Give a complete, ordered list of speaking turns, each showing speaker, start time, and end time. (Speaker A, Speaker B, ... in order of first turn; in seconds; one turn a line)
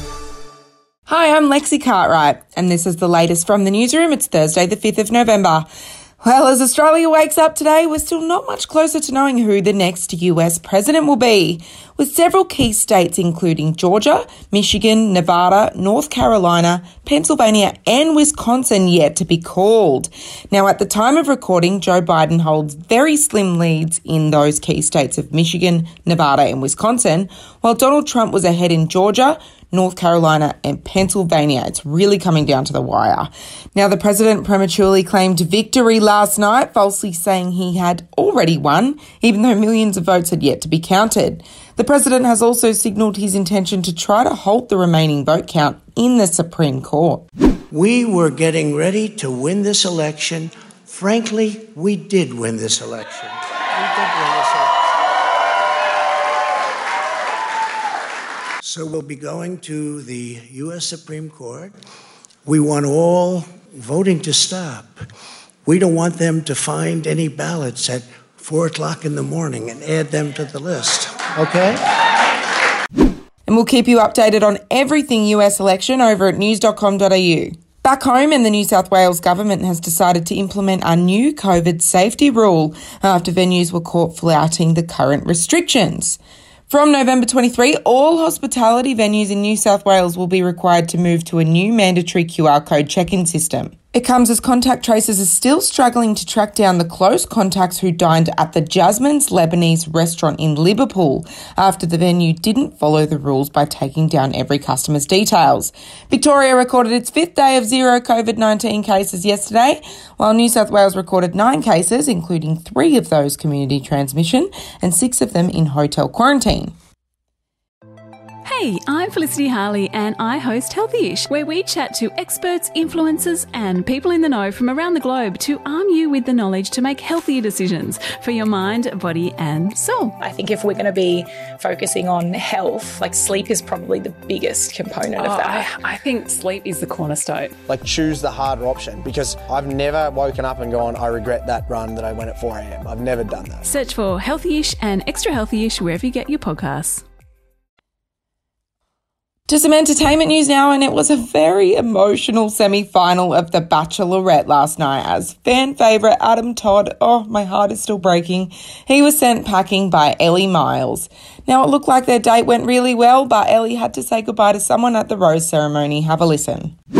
Speaker A: 1.1-5.7
Speaker A: 6.2-47.2
Speaker B: 47.7-54.8
Speaker B: 58.6-61.7
Speaker B: 62.4-65.0
Speaker B: 65.7-71.7
Speaker A: 73.5-116.7
Speaker C: 118.5-130.1
Speaker D: 130.2-135.8
Speaker C: 135.2-137.5
Speaker E: 137.7-143.7
Speaker C: 143.6-147.0
Speaker A: 149.5-166.7